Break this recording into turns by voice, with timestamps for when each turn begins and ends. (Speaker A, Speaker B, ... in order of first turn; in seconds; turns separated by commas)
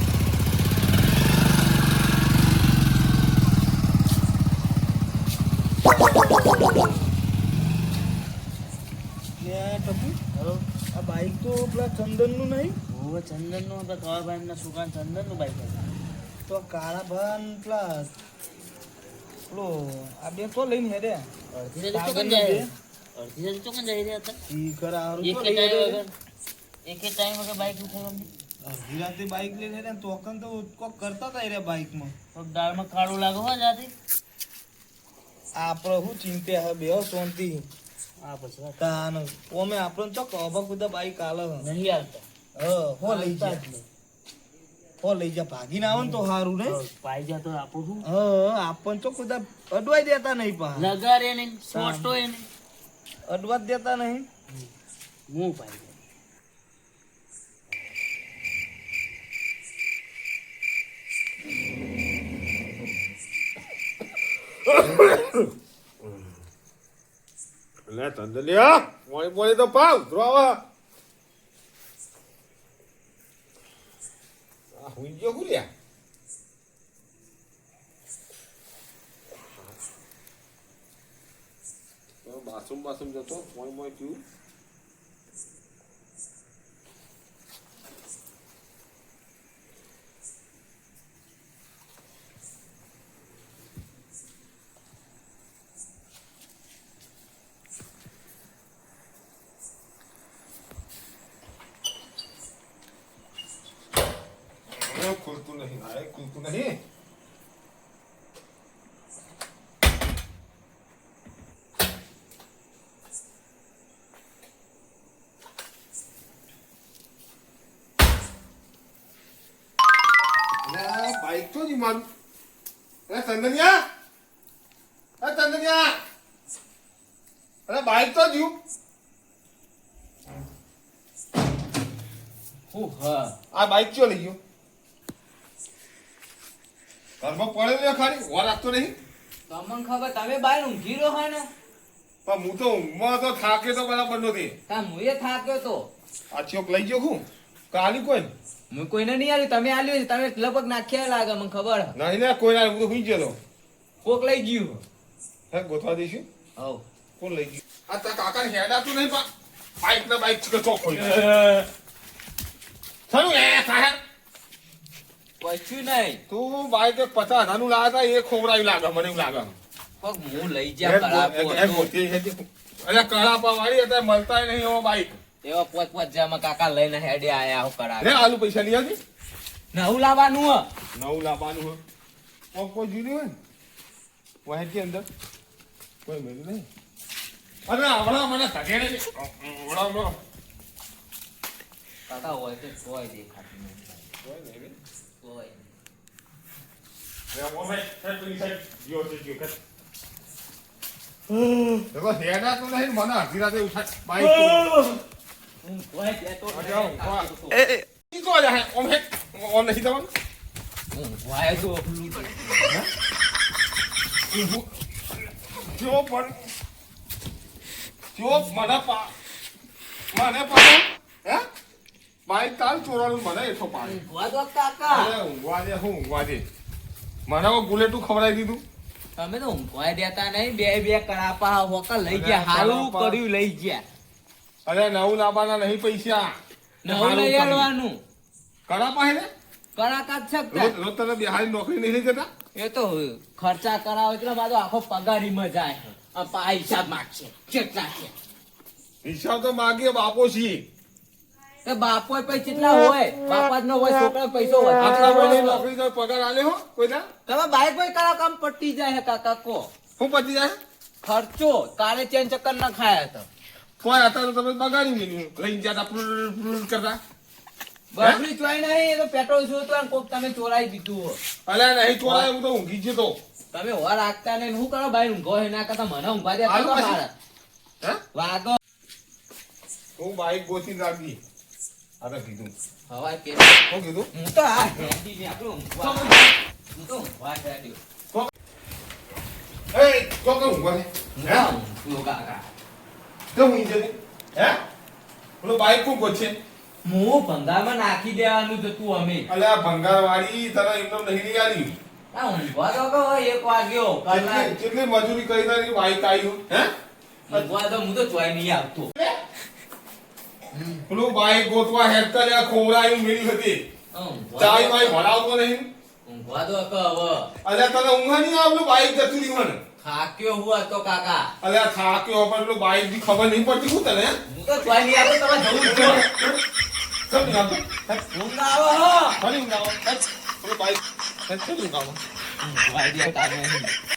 Speaker A: 6.2-6.7, Speaker B: 9.4-10.2, Speaker C: 10.3-10.6, Speaker B: 10.9-12.8, Speaker C: 12.9-15.8, Speaker B: 16.5-18.1, Speaker B: 19.5-21.3, Speaker C: 21.5-24.4, Speaker B: 21.9-22.7, Speaker B: 24.5-26.0, Speaker C: 25.2-26.1, Speaker C: 26.9-28.3, Speaker B: 28.6-32.1, Speaker C: 32.4-33.9, Speaker B: 35.6-37.7, Speaker C: 38.2-39.0, Speaker B: 38.8-41.7, Speaker C: 41.6-42.2, Speaker B: 42.6-43.7, Speaker C: 43.1-43.9, Speaker B: 45.0-46.8, Speaker C: 46.0-48.1, Speaker B: 48.0-50.9, Speaker C: 50.8-52.5, Speaker B: 51.7-52.2, Speaker B: 53.3-54.3, Speaker C: 55.3-55.9, Speaker A: 64.7-65.5, Speaker A: 67.9-70.6, Speaker A: 74.8-75.7, Speaker A: 82.2-84.2, Speaker A: 104.7-106.8, Speaker A: 120.6-122.1, Speaker A: 123.1-123.9, Speaker A: 125.2-126.0, Speaker A: 127.7-128.6, Speaker D: 132.7-133.3, Speaker A: 133.5-134.4, Speaker A: 137.2-138.9, Speaker D: 139.5-141.5, Speaker A: 142.2-144.6, Speaker D: 144.7-145.9, Speaker A: 146.3-148.3, Speaker D: 148.7-151.9, Speaker A: 151.9-153.4, Speaker D: 154.0-154.8, Speaker A: 155.5-156.3, Speaker D: 156.6-156.8, Speaker A: 157.2-159.3, Speaker A: 159.8-161.6, Speaker D: 161.1-161.6, Speaker A: 163.1-164.0, Speaker D: 165.4-166.2, Speaker A: 166.3-169.5, Speaker D: 170.0-171.9, Speaker A: 170.8-175.2, Speaker D: 175.4-178.2, Speaker A: 178.0-179.0, Speaker D: 179.7-180.7, Speaker A: 180.9-181.8, Speaker A: 182.5-183.4, Speaker A: 184.4-185.1, Speaker A: 186.1-186.7, Speaker A: 187.7-190.2, Speaker D: 192.1-194.0, Speaker A: 194.2-194.8, Speaker D: 195.2-195.7, Speaker A: 197.3-199.6, Speaker A: 201.9-204.7, Speaker D: 204.2-205.0, Speaker D: 205.6-207.7, Speaker A: 206.5-207.3, Speaker A: 208.1-210.1, Speaker D: 210.9-212.8, Speaker A: 214.3-214.7, Speaker A: 215.5-216.4, Speaker A: 218.1-219.1, Speaker A: 220.1-221.4, Speaker A: 222.3-224.0, Speaker D: 223.8-225.1, Speaker A: 224.9-226.4, Speaker A: 227.3-228.6, Speaker D: 229.2-233.8, Speaker A: 232.1-233.2, Speaker A: 234.7-236.3, Speaker D: 236.8-238.0, Speaker A: 236.9-237.7, Speaker A: 238.7-239.3, Speaker D: 239.8-240.8, Speaker A: 240.5-242.3, Speaker D: 242.6-248.1, Speaker A: 249.0-250.7, Speaker D: 251.6-255.7, Speaker A: 254.8-257.1, Speaker D: 257.3-259.7, Speaker A: 260.0-260.6, Speaker D: 261.0-263.3, Speaker A: 263.8-267.0, Speaker D: 267.9-271.2, Speaker A: 271.4-273.2, Speaker D: 272.0-272.3, Speaker D: 273.5-277.1, Speaker A: 276.4-277.0, Speaker D: 278.1-278.6, Speaker A: 280.0-281.2, Speaker A: 282.0-282.5, Speaker D: 282.9-283.6, Speaker A: 283.7-284.1, Speaker D: 284.1-287.8, Speaker A: 285.8-286.3, Speaker A: 289.7-291.5, Speaker D: 291.2-292.4, Speaker A: 293.3-294.6, Speaker A: 295.4-296.4, Speaker D: 296.8-299.3, Speaker A: 299.3-301.8, Speaker D: 302.1-304.5, Speaker A: 304.1-306.7, Speaker D: 307.3-308.9, Speaker D: 310.5-310.8, Speaker A: 310.9-313.6, Speaker D: 313.9-315.1, Speaker A: 314.4-315.7, Speaker D: 316.1-317.3, Speaker A: 317.4-319.6, Speaker D: 319.8-321.3, Speaker A: 321.4-324.2, Speaker D: 324.3-326.1, Speaker A: 325.6-326.4, Speaker A: 327.1-328.0, Speaker D: 328.0-329.2, Speaker A: 329.2-332.0, Speaker D: 332.4-333.7